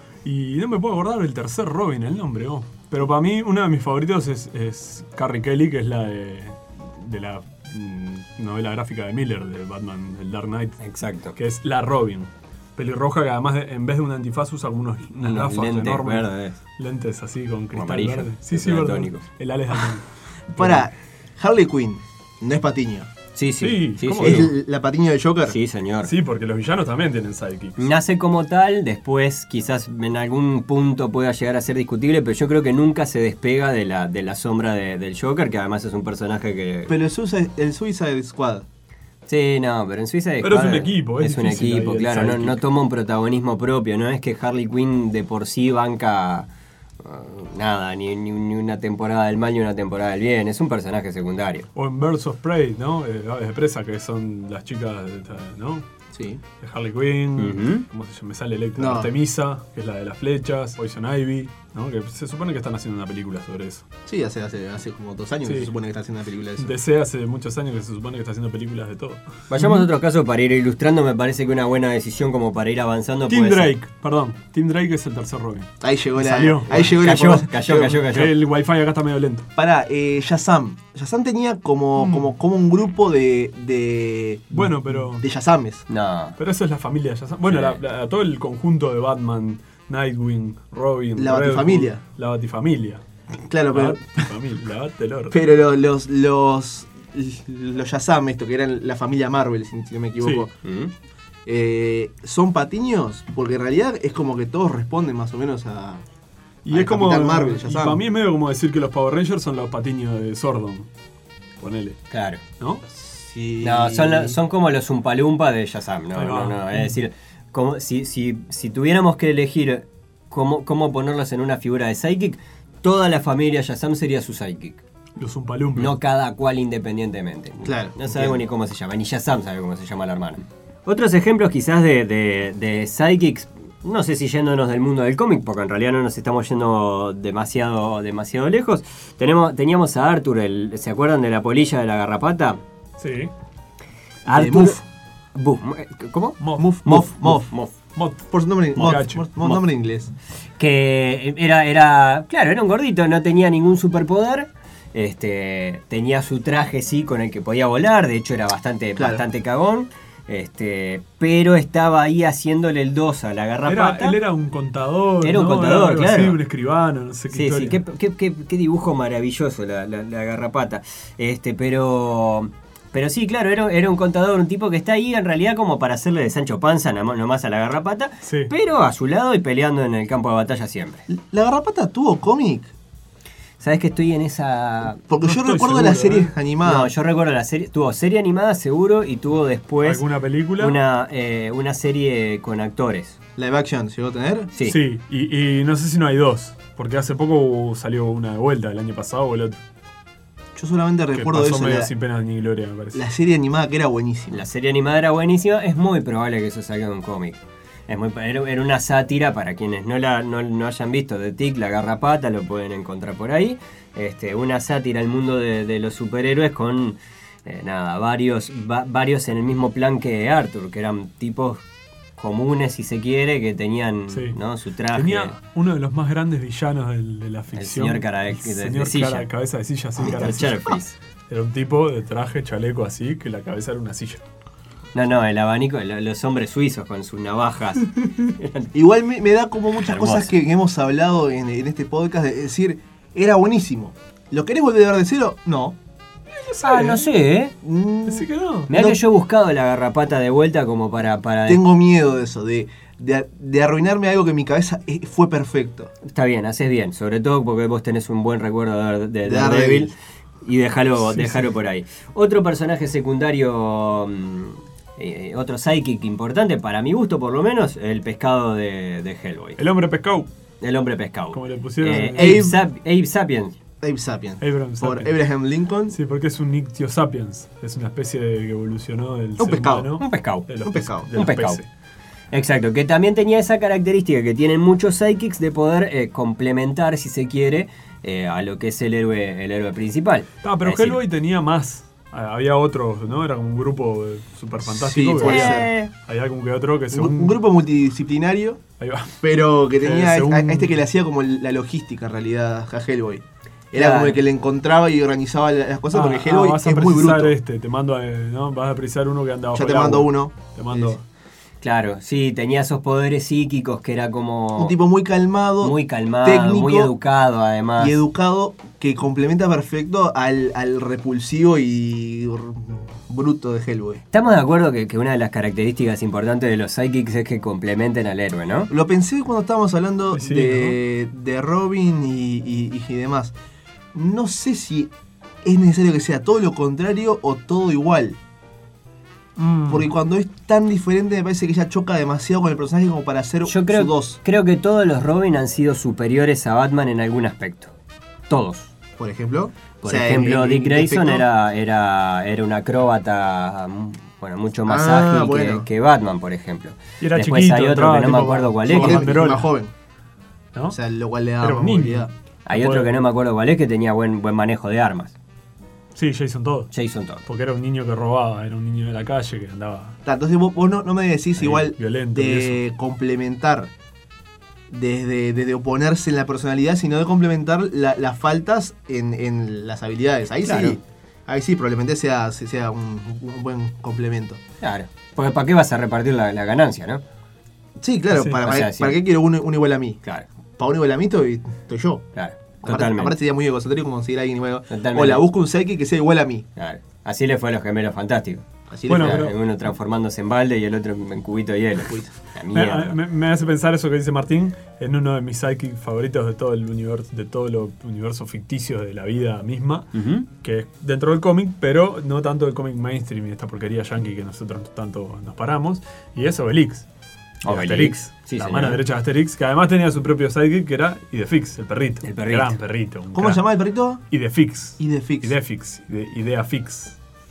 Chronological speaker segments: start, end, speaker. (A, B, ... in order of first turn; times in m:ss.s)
0:00.2-0:10.8 A
0:10.8-0:11.4 B
0:11.4-0:20.8 A
0:15.2-0:16.6 B
0:17.7-0:19.2 B
0:20.5-0:23.1 C
0:23.3-0:24.5 B
0:23.6-0:24.5 A
0:24.2-0:25.6 C
0:25.4-0:26.1 B
0:26.0-0:27.9 A
0:27.8-0:36.9 B
0:36.9-0:38.6 C
0:39.3-0:46.5 B
0:40.4-0:42.6 A
0:47.0-0:51.7 B
0:51.7-0:55.9 A
0:56.1-0:56.4 C
0:56.6-1:03.9 A
0:57.4-0:57.8 B
0:58.8-0:59.1 C
1:04.0-1:06.7 C
1:05.4-1:05.7 A
1:06.6-1:09.9 A
1:09.5-1:13.7 B
1:13.3-1:16.9 A
1:15.8-1:18.1 C
1:16.7-1:18.3 B
1:18.1-1:19.5 A
1:19.6-1:25.9 C
1:22.0-1:22.3 A
1:24.5-1:25.2 A
1:25.9-1:26.4 B
1:26.4-1:33.0 A
1:27.5-1:27.8 B
1:31.2-1:32.0 C
1:33.3-1:34.3 C
1:33.7-1:35.4 A
1:35.3-1:40.5 C
1:40.2-1:40.5 A
1:40.6-1:40.9 B
1:41.4-1:46.0 C
1:46.6-1:50.9 A
1:46.7-1:48.0 C
1:51.6-1:52.0 A
1:52.1-1:52.4 B
1:52.6-1:52.8 A
1:52.9-1:54.4 C
1:53.6-2:04.8 B
1:56.1-1:57.0 A
2:05.2-2:06.0 A
2:05.8-2:22.6 B
2:07.6-2:08.4 C
2:23.0-2:23.3 A
2:24.2-2:24.8 B
2:24.3-2:24.8 C
2:25.3-2:27.7 B
2:26.4-2:27.4 A
2:26.6-2:27.5 C
2:27.9-2:29.2 A
2:28.3-2:30.1 C
2:28.8-2:29.6 B
2:30.6-2:44.2 B
2:39.0-2:39.2 C
2:43.6-2:47.8 A
2:45.2-2:46.4 B
2:47.3-3:01.0 B
2:58.2-2:58.5 A
3:01.1-3:02.7 C
3:03.6-3:05.0 B
3:05.1-3:06.9 C
3:05.2-3:06.3 A
3:06.6-3:10.0 B
3:09.8-3:10.8 A
3:10.6-3:13.2 B
3:13.4-3:14.5 C
3:14.6-3:19.6 A
3:20.6-3:21.9 C
3:21.1-3:23.0 A
3:22.9-3:24.4 C
3:24.3-3:41.6 B
3:42.2-3:45.4 B
3:44.1-3:44.4 A
3:44.9-3:54.2 A
3:47.5-3:49.3 B
3:50.0-3:51.0 B
3:54.9-3:58.7 B
3:58.7-4:05.8 C
3:59.8-4:00.3 B
4:06.3-4:07.1 A
4:06.6-4:07.5 B
4:07.6-4:09.0 C
4:08.0-4:08.7 A
4:08.7-4:11.6 B
4:11.5-4:15.9 C
4:16.0-4:29.6 B
4:19.2-4:19.9 C
4:21.0-4:21.5 A
4:29.6-4:30.3 A
4:30.6-4:33.6 B
4:31.3-4:32.6 A
4:32.1-4:32.6 C
4:33.8-4:36.0 C
4:34.4-4:35.2 A
4:35.9-4:41.7 A
4:39.4-4:40.0 C
4:40.0-4:40.5 B
4:40.6-4:41.1 C
4:41.1-4:41.6 B
4:42.3-4:51.0 B
4:50.4-4:57.4 A
4:54.6-4:55.7 C
4:55.2-4:55.9 B
4:56.9-4:58.6 C
4:58.8-5:00.8 A
4:59.2-5:07.4 C
5:03.7-5:04.2 B
5:05.9-5:11.0 A
5:09.5-5:11.0 C
5:11.6-5:14.8 B
5:14.6-5:16.9 C
5:15.6-5:17.9 B
5:17.8-5:24.0 C
5:24.1-5:28.7 B
5:28.7-5:33.3 C
5:30.1-5:30.8 A
5:33.9-5:34.9 C
5:35.4-5:38.2 C
5:39.4-5:39.9 A
5:39.7-5:44.2 C
5:43.4-5:47.7 B
5:48.3-5:48.7 B
5:49.0-5:51.3 C
5:49.8-5:59.1 B
5:54.7-5:55.7 C
5:57.0-5:59.5 A
5:58.7-5:59.7 C
6:00.7-6:02.1 C
6:01.4-6:02.9 A
6:02.4-6:05.1 B
6:06.0-6:06.7 A
6:06.7-6:07.2 B
6:07.2-6:10.0 A
6:10.0-6:13.7 C
6:11.4-6:12.6 A
6:14.7-6:24.4 C
6:20.4-6:20.8 B
6:24.6-6:27.0 B
6:27.8-6:30.0 C
6:28.1-6:28.4 A
6:28.4-6:29.0 B
6:30.6-6:32.1 C
6:32.1-6:33.2 B
6:32.6-6:36.4 C
6:34.7-6:35.2 B
6:36.6-6:43.0 B
6:38.7-6:39.3 C
6:38.9-6:39.4 A
6:42.5-6:56.8 A
6:49.9-6:50.3 B
6:57.4-6:58.8 B
6:57.4-7:03.4 A
7:02.0-7:02.6 B
7:03.1-7:04.0 C
7:04.1-7:07.0 A
7:04.8-7:05.4 C